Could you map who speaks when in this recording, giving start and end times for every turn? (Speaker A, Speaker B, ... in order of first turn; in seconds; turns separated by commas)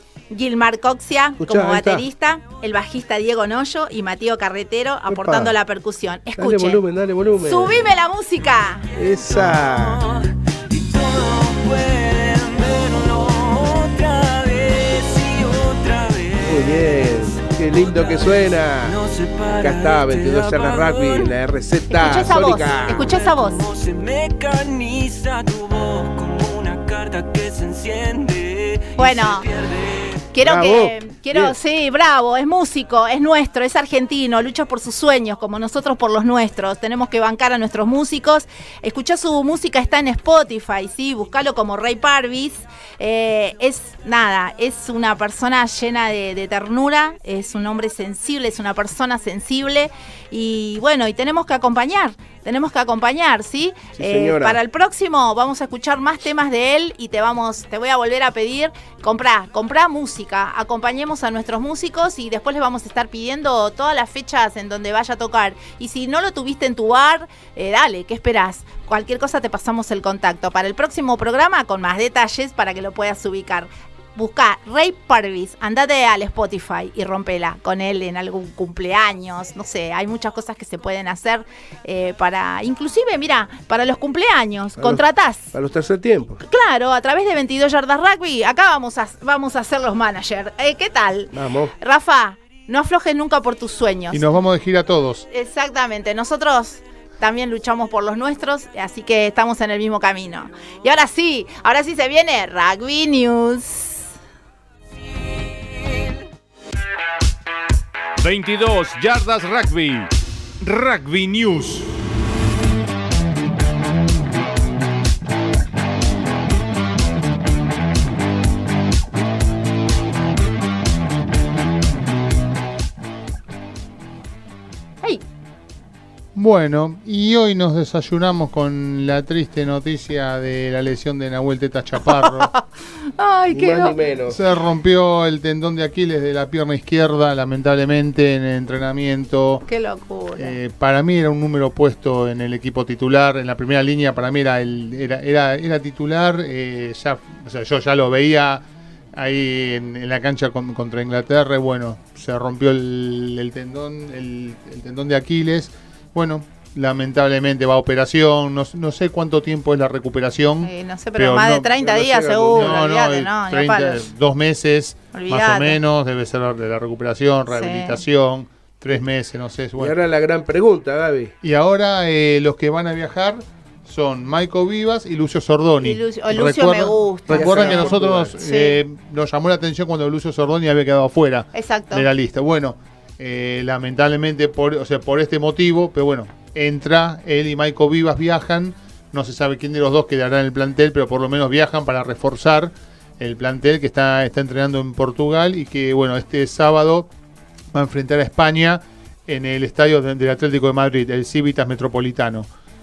Speaker A: 0.3-6.8, Speaker B: 1.4-2.0, Speaker B: 5.1-5.5, Speaker B: 6.4-7.7, Speaker A: 7.5-8.9, Speaker B: 8.9-10.0, Speaker C: 9.2-21.3, Speaker B: 16.4-18.9, Speaker B: 19.6-23.1, Speaker A: 21.9-23.6, Speaker C: 22.2-30.2, Speaker A: 29.0-29.5, Speaker A: 30.3-85.5, Speaker B: 30.4-31.6, Speaker B: 54.0-54.6, Speaker B: 85.5-86.4, Speaker A: 86.4-94.2, Speaker B: 91.3-91.7, Speaker D: 94.1-95.2, Speaker A: 95.3-104.1, Speaker E: 108.2-110.1, Speaker E: 110.6-111.9, Speaker D: 126.3-132.5, Speaker A: 132.1-132.6, Speaker A: 133.2-134.0, Speaker B: 133.5-134.4, Speaker D: 134.3-139.7, Speaker A: 139.7-140.6, Speaker D: 140.4-161.7, Speaker A: 160.6-164.1, Speaker B: 161.8-162.9, Speaker D: 162.5-169.9, Speaker A: 165.1-165.8, Speaker A: 167.5-168.0, Speaker B: 169.8-171.3, Speaker D: 171.4-197.1, Speaker A: 175.8-178.8, Speaker B: 177.3-178.3, Speaker A: 181.5-182.1, Speaker D: 197.7-202.5